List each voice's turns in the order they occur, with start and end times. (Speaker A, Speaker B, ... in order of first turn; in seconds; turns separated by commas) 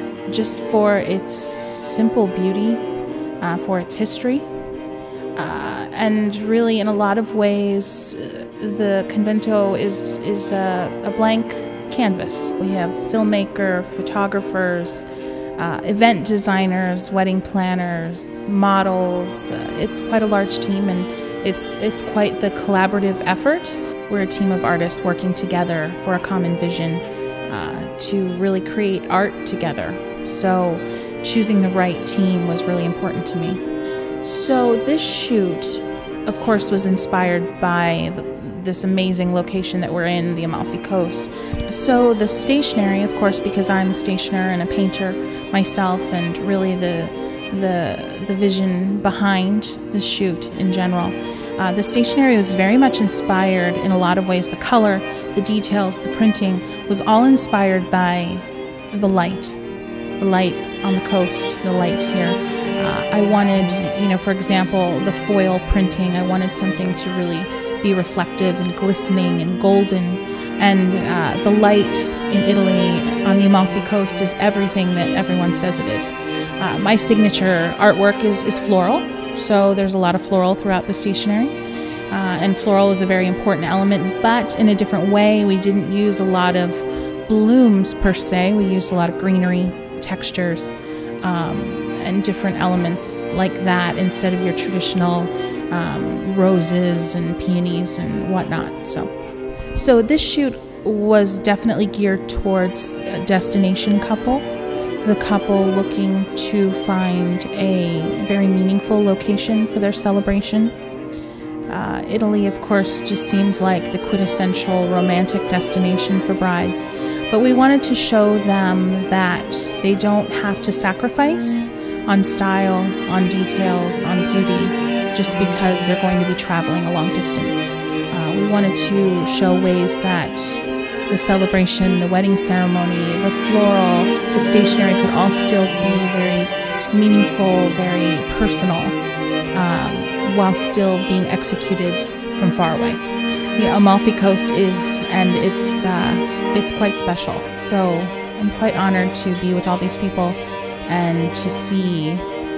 Speaker A: 0.3-2.9, Speaker A: 3.4-4.5, Speaker A: 5.3-33.6, Speaker A: 34.2-59.6, Speaker A: 60.2-99.1, Speaker A: 99.7-104.5, Speaker A: 105.0-110.8, Speaker A: 111.7-139.0, Speaker A: 139.5-143.0, Speaker A: 143.6-152.2